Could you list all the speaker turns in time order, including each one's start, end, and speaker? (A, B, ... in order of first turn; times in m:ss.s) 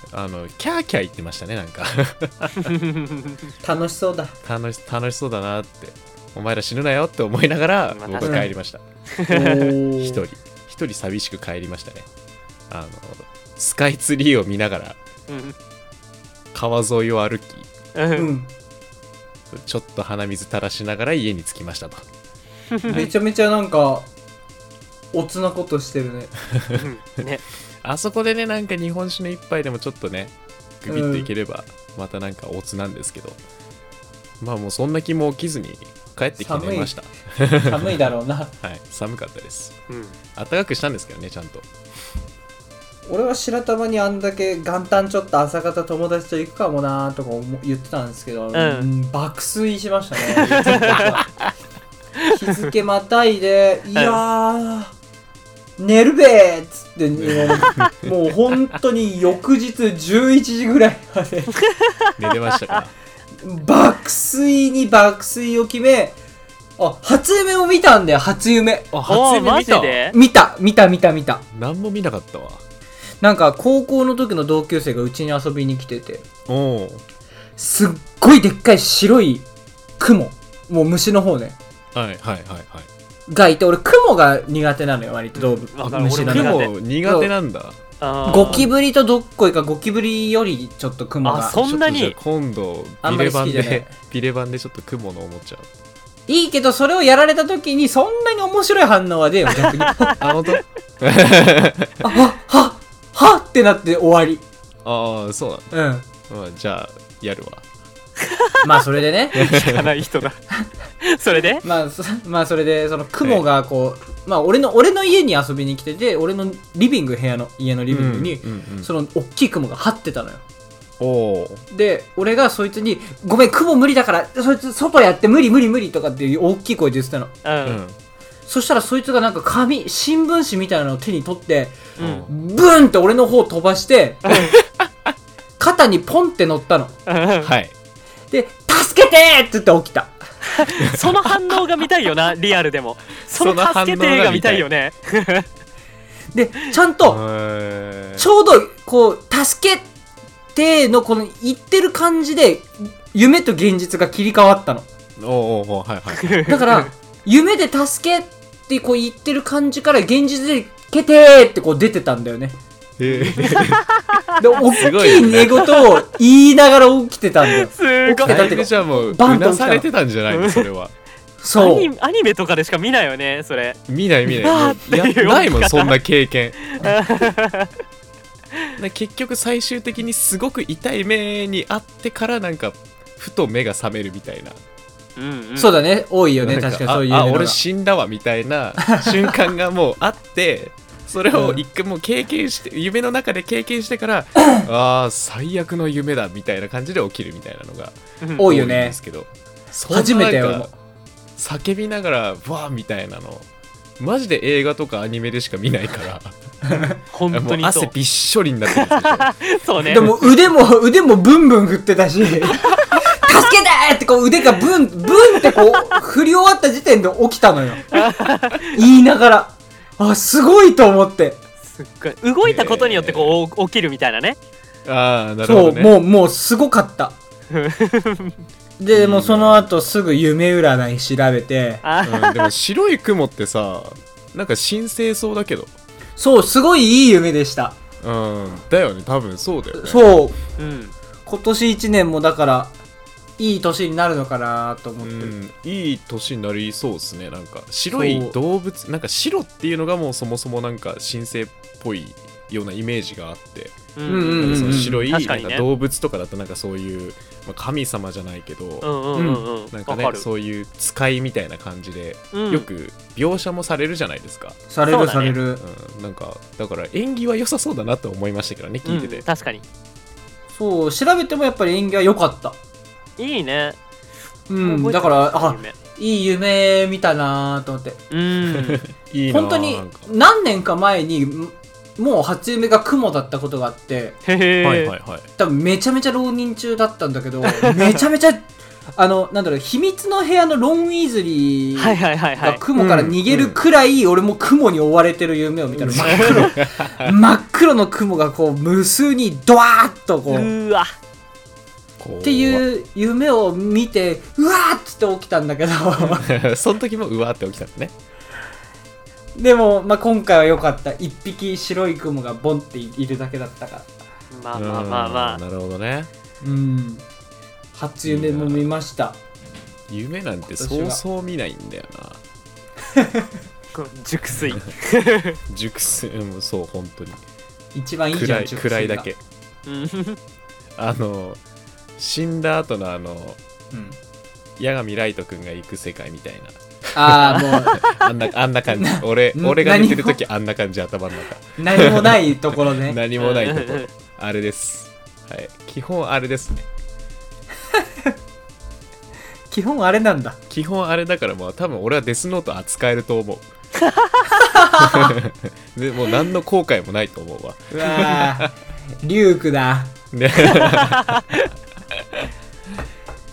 0:00.1-0:02.7 A
0:02.6-0:03.4 B
0:03.6-0:04.4 C
0:04.4-0:08.8 A
0:07.9-0:08.5 B
0:08.2-0:08.5 C
0:09.2-0:09.7 B
0:09.3-0:10.2 C
0:10.0-0:12.1 A
0:12.7-0:15.0 A
0:15.3-0:15.6 B
0:16.5-0:17.7 A
0:18.0-0:18.3 B
0:18.2-0:18.5 C
0:19.5-0:22.0 A
0:22.7-0:23.1 B
0:22.9-0:23.1 A
0:22.9-0:24.1 C
0:25.1-0:26.3 C
0:26.8-0:27.4 B
0:27.8-0:33.4 A
0:30.9-0:31.3 C
0:34.4-0:38.0 A
0:36.4-0:38.6 C
0:38.6-0:39.8 A
0:39.9-0:40.2 B
0:40.4-0:41.7 A
0:43.1-0:51.3 C
0:48.5-0:48.9 B
0:50.4-0:51.2 B
0:50.5-0:51.5 A
0:52.2-0:52.7 B
0:52.3-0:55.0 C
0:54.0-0:54.2 B
0:55.8-1:01.5 C
0:57.2-0:58.1 A
1:01.6-1:02.8 B
1:02.2-1:02.9 A
1:03.4-1:06.2 C
1:06.8-1:08.9 C
1:08.9-1:10.0 A
1:09.1-1:10.2 B
1:10.1-1:11.4 C
1:11.5-1:12.6 A
1:13.2-1:16.2 C
1:16.5-1:17.0 A
1:17.6-1:19.5 C
1:20.0-1:21.6 C
1:21.9-1:22.9 A
1:23.3-1:27.3 C
1:25.4-1:26.7 B
1:26.2-1:27.8 A
1:28.0-1:28.7 B
1:28.2-1:31.6 C
1:28.3-1:28.7 A
1:31.2-1:32.2 B
1:31.6-1:35.7 A
1:33.0-1:33.9 C
1:36.3-1:40.2 C
1:39.6-1:40.2 B
1:40.2-1:42.0 A
1:42.0-1:44.4 C
1:44.8-1:45.7 A
1:45.7-1:46.1 C
1:46.3-1:47.6 A
1:48.2-1:50.4 B
1:48.6-1:49.5 C
1:49.4-1:49.9 A
1:51.0-1:51.6 B
1:51.3-2:00.4 C
1:57.9-1:58.9 A
2:01.0-2:01.6 A
2:01.7-2:07.4 C
2:07.4-2:07.8 B
2:07.6-2:08.0 A
2:08.5-2:14.4 C
2:12.0-2:12.3 A
2:12.0-2:12.2 B
2:14.3-2:14.5 B
2:14.3-2:15.1 A
2:15.6-2:17.0 C
2:17.1-2:17.5 B
2:17.4-2:17.7 A
2:18.3-2:20.2 C
2:20.6-2:25.5 B
2:23.3-2:24.7 A
2:26.3-2:27.2 C
2:27.0-2:28.3 A
2:28.2-2:29.9 C
2:30.6-2:34.9 C
2:35.2-2:36.4 A
2:36.2-2:36.9 B
2:36.4-2:42.6 C
2:43.0-2:43.8 A
2:43.1-2:46.0 B
2:44.4-2:49.9 C
2:44.7-2:45.6 A
2:47.5-2:48.6 B
2:48.2-2:50.9 A
2:50.3-2:50.7 B
2:51.4-2:51.9 C
2:51.6-2:56.0 B
2:53.9-2:56.8 A
2:56.8-2:57.7 B
2:58.8-3:04.6 A
3:05.2-3:05.8 B
3:05.6-3:07.6 C
3:06.4-3:20.7 A
3:08.9-3:09.2 C
3:11.3-3:11.6 C
3:18.2-3:18.5 B
3:18.4-3:19.0 C
3:19.9-3:20.7 C
3:21.4-3:23.5 A
3:24.0-3:29.3 A
3:26.7-3:27.0 C
3:27.1-3:27.9 B
3:28.7-3:30.3 B
3:29.8-3:37.9 C
3:32.4-3:33.2 B
3:35.1-3:36.0 B
3:37.9-3:38.8 B
3:38.7-3:41.4 C
3:41.6-3:44.4 B
3:42.4-3:43.4 A
3:44.8-3:46.0 A
3:45.4-3:47.2 C
3:47.5-3:48.4 B
3:48.8-3:51.8 C
3:48.9-3:49.9 A
3:51.8-3:52.5 B
3:52.0-3:55.7 A
3:56.2-3:57.8 C
3:58.0-4:00.2 A
3:59.7-4:00.4 C
4:00.6-4:00.9 B
4:01.3-4:02.8 C
4:03.4-4:05.4 C
4:05.0-4:18.9 A
4:07.9-4:08.4 C
4:14.0-4:15.6 B
4:14.1-4:15.1 C
4:18.8-4:20.2 B
4:19.2-4:19.5 C
4:19.7-4:24.6 A
4:22.3-4:22.7 B
4:24.7-4:25.6 C
4:24.9-4:25.4 B
4:25.6-4:29.2 A
4:28.8-4:29.6 B
4:30.5-4:32.6 C
4:33.2-4:33.8 B
4:34.5-4:38.0 C
4:34.6-4:35.8 B
4:38.1-4:38.8 B
4:38.5-4:40.1 A
4:39.3-4:44.2 C
4:44.3-4:44.9 B
4:44.6-4:45.3 A
4:45.4-5:00.5 C
4:47.4-4:48.0 B
4:51.8-4:52.6 B
4:52.8-4:53.6 A
4:55.7-4:57.1 A
4:56.0-4:56.5 B
5:00.3-5:00.9 B
5:02.0-5:02.6 A
5:02.2-5:06.3 C
5:06.0-5:08.0 A
5:09.4-5:13.9 C
5:14.3-5:15.4 B
5:14.5-5:16.1 A
5:16.4-5:17.1 C
5:17.7-5:19.2 C
5:18.0-5:18.7 A
5:19.9-5:22.2 A
5:20.6-5:21.0 C
5:22.9-5:23.3 C
5:23.7-5:25.4 B
5:25.5-5:27.2 A
5:27.7-5:29.1 C
5:28.1-5:29.2 A
5:29.7-5:30.2 B
5:30.8-5:31.4 A
5:32.0-5:33.4 A
5:33.7-5:34.0 C
5:34.6-5:46.7 A
5:36.9-5:37.8 C
5:37.2-5:38.0 B
5:38.7-5:40.2 C
5:41.6-5:43.0 C
5:43.2-5:43.9 B
5:47.7-5:48.1 C
5:49.5-5:50.4 C
5:50.5-5:53.5 A
5:53.9-5:54.3 B
5:54.5-5:55.2 C
5:54.7-5:58.5 A
5:57.7-6:00.0 C
6:00.1-6:01.4 A
6:01.1-6:01.4 B
6:01.9-6:02.3 A